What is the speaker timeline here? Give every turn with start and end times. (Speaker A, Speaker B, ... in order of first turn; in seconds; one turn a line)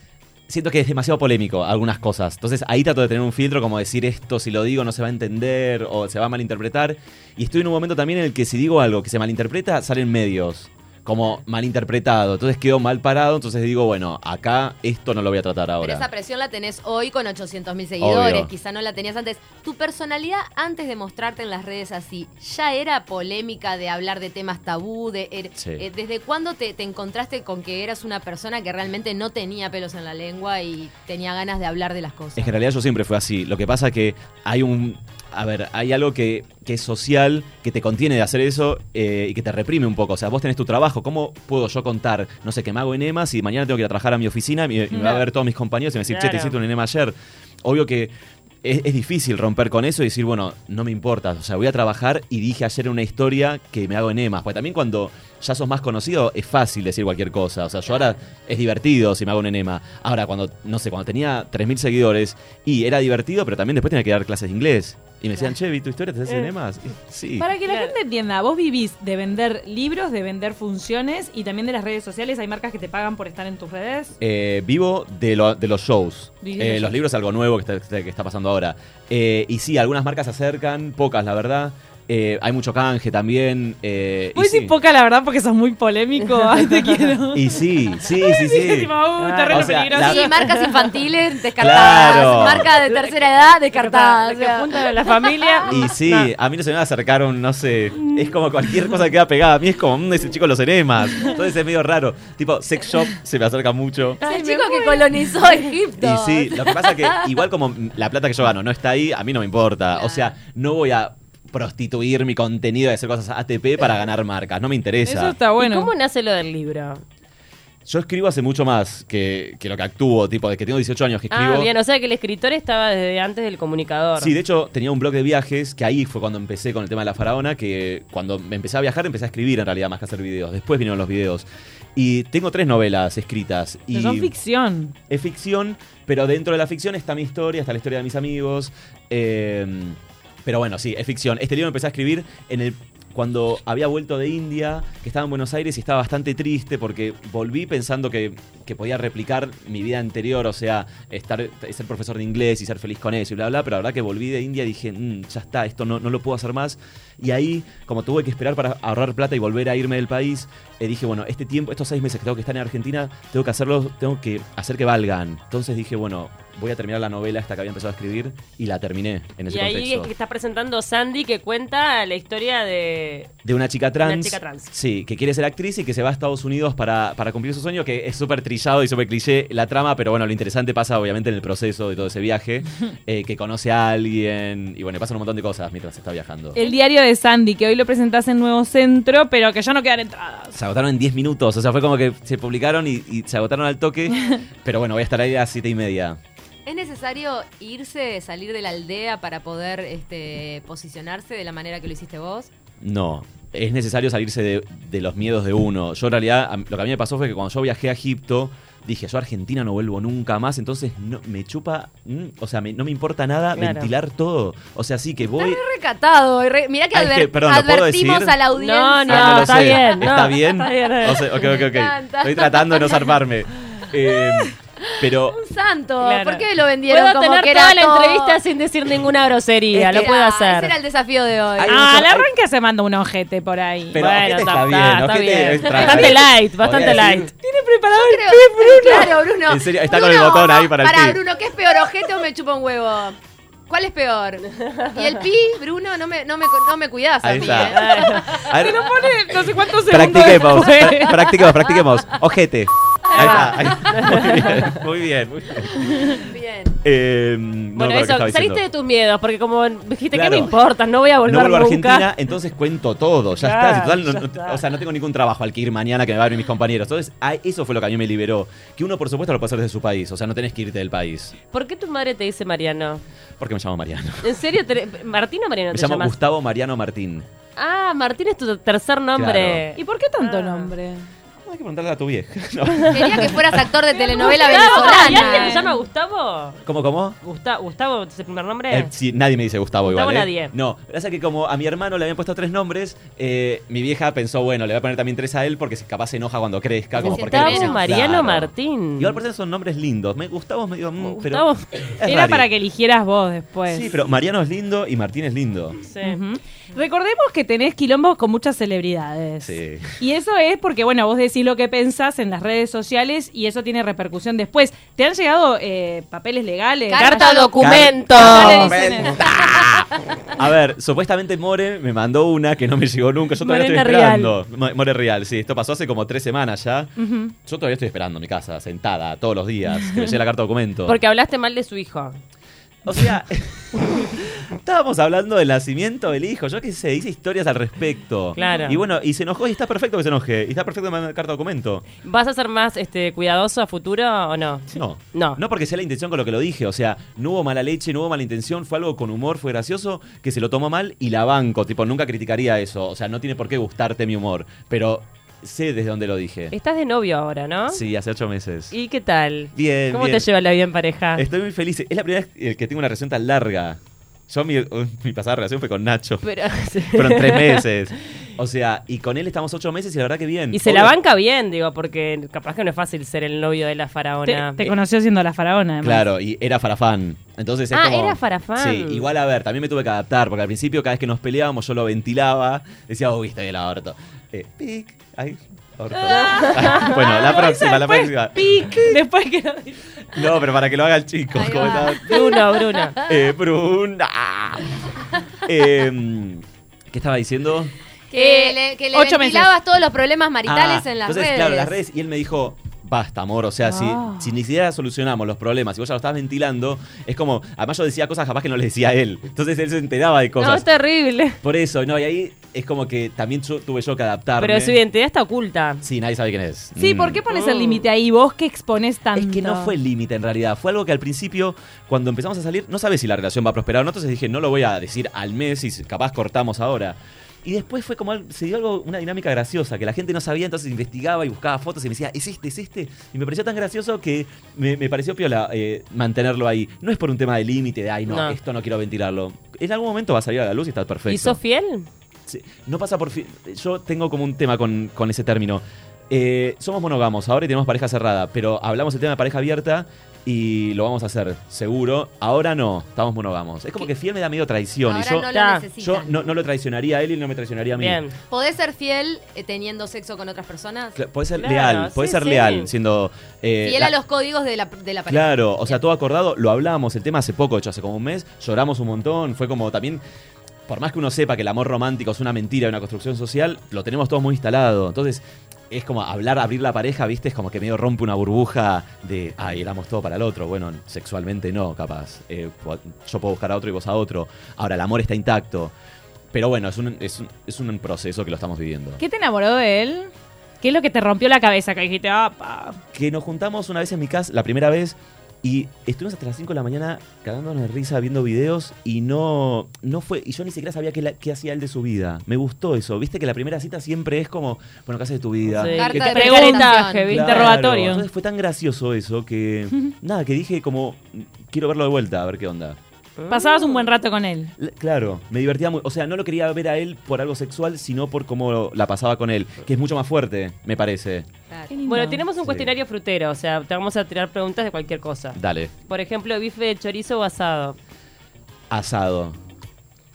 Speaker A: 0.5-16.1
Speaker B: 15.8-32.5
Speaker A: 18.0-18.5
Speaker A: 25.6-25.8
Speaker A: 32.4-67.5
Speaker C: 44.9-45.2
Speaker D: 46.1-46.6
Speaker C: 67.4-74.2
Speaker D: 67.6-68.0
Speaker A: 74.2-84.7
Speaker C: 76.4-76.9
Speaker C: 84.3-90.3
Speaker A: 87.3-88.9
Speaker D: 89.2-89.8
Speaker A: 89.5-90.3
Speaker B: 89.9-95.8
Speaker D: 90.4-90.7
Speaker A: 91.6-92.7
Speaker D: 91.7-96.3
Speaker A: 95.7-104.2
Speaker C: 104.2-105.2
Speaker B: 104.2-107.4
Speaker A: 106.0-115.4
Speaker B: 109.9-110.3
Speaker C: 115.0-115.9
Speaker D: 115.6-117.0
Speaker A: 117.8-121.7
Speaker D: 121.3-124.3
Speaker A: 124.2-134.3
Speaker C: 133.9-134.9
Speaker A: 135.1-170.1
Speaker D: 169.4-173.3
Speaker A: 173.4-186.6
Speaker D: 174.0-174.7
Speaker C: 186.5-190.6
Speaker A: 190.5-196.2
Speaker B: 196.6-202.5
Speaker A: 202.8-215.6
Speaker D: 213.5-213.9
Speaker B: 215.2-220.1
Speaker A: 216.9-218.4
Speaker D: 218.5-221.5
Speaker A: 219.1-225.4
Speaker B: 221.4-223.2
Speaker B: 224.8-228.4
Speaker D: 226.0-230.8
Speaker B: 229.7-231.8
Speaker A: 231.6-232.3
Speaker C: 231.7-234.0
Speaker A: 233.9-237.3
Speaker D: 233.9-237.3
Speaker C: 237.4-239.2
Speaker B: 237.9-243.2
Speaker A: 239.5-241.2
Speaker B: 243.7-248.5
Speaker A: 247.2-256.2
Speaker D: 247.6-248.2
Speaker C: 248.2-251.4
Speaker D: 253.1-254.8
Speaker B: 253.6-254.1
Speaker B: 256.1-256.8
Speaker A: 256.8-258.6
Speaker D: 257.8-262.1
Speaker A: 260.1-260.5
Speaker A: 261.2-271.3
Speaker D: 263.4-264.6
Speaker D: 271.5-273.0
Speaker A: 273.4-274.3
Speaker D: 274.2-276.2
Speaker A: 275.7-277.3
Speaker D: 277.6-280.7
Speaker A: 279.1-279.6
Speaker C: 279.7-281.1
Speaker A: 281.4-283.7
Speaker D: 282.8-283.3
Speaker B: 282.9-285.6
Speaker C: 283.9-285.7
Speaker D: 284.2-286.6
Speaker A: 286.6-287.2
Speaker D: 287.2-288.9
Speaker A: 288.7-302.5
Speaker D: 289.8-290.5
Speaker D: 297.0-299.2
Speaker B: 297.0-297.9
Speaker D: 301.0-301.9
Speaker C: 302.0-303.9
Speaker A: 303.7-305.8
Speaker D: 305.8-306.2
Speaker C: 306.0-317.4
Speaker A: 309.4-310.0
Speaker B: 316.9-318.5
Speaker D: 317.0-318.8
Speaker A: 317.6-331.0
Speaker C: 318.1-319.3
Speaker D: 323.4-324.3
Speaker C: 327.0-327.3
Speaker C: 329.8-330.1
Speaker D: 330.8-332.2
Speaker A: 332.8-341.9
Speaker D: 338.3-338.8
Speaker C: 338.4-338.7
Speaker D: 342.0-345.4
Speaker A: 344.7-356.5
Speaker D: 356.5-357.8
Speaker A: 357.7-358.8
Speaker D: 358.7-361.2
Speaker A: 359.5-360.3
Speaker A: 361.1-366.2
Speaker D: 366.2-367.6
Speaker A: 366.9-370.9
Speaker D: 370.5-374.8
Speaker C: 374.2-376.0
Speaker A: 375.8-389.0
Speaker D: 377.7-379.1
Speaker C: 386.1-390.2
Speaker B: 386.2-386.6
Speaker D: 386.3-386.8
Speaker A: 390.1-392.3
Speaker B: 391.3-393.1
Speaker D: 392.0-393.0
Speaker A: 393.0-394.8
Speaker A: 395.4-397.7
Speaker B: 398.1-401.8
Speaker C: 398.1-399.5
Speaker A: 400.4-410.7
Speaker C: 403.6-404.3
Speaker D: 410.4-411.4
Speaker A: 411.4-414.8
Speaker D: 414.4-415.8
Speaker A: 415.8-417.2
Speaker C: 416.8-419.7
Speaker D: 417.3-417.9
Speaker A: 419.1-441.4
Speaker D: 438.1-438.4
Speaker D: 441.1-441.9
Speaker A: 442.3-455.3
Speaker B: 454.9-456.4
Speaker D: 455.3-455.6
Speaker A: 455.8-458.0
Speaker D: 457.8-458.1
Speaker B: 458.3-461.0
Speaker A: 460.9-463.9
Speaker D: 461.4-462.7
Speaker B: 463.6-465.8
Speaker A: 465.1-470.0
Speaker A: 470.7-485.7
Speaker A: 486.3-489.0
Speaker C: 489.0-490.1
Speaker C: 490.6-492.8
Speaker A: 492.9-512.8
Speaker D: 505.4-507.6
Speaker B: 505.7-507.2
Speaker C: 506.2-508.1
Speaker D: 513.2-513.9
Speaker C: 513.3-514.5
Speaker A: 514.6-521.3
Speaker C: 521.7-522.2
Speaker D: 521.9-527.8
Speaker A: 522.4-522.7
Speaker A: 525.3-525.7
Speaker A: 528.7-529.4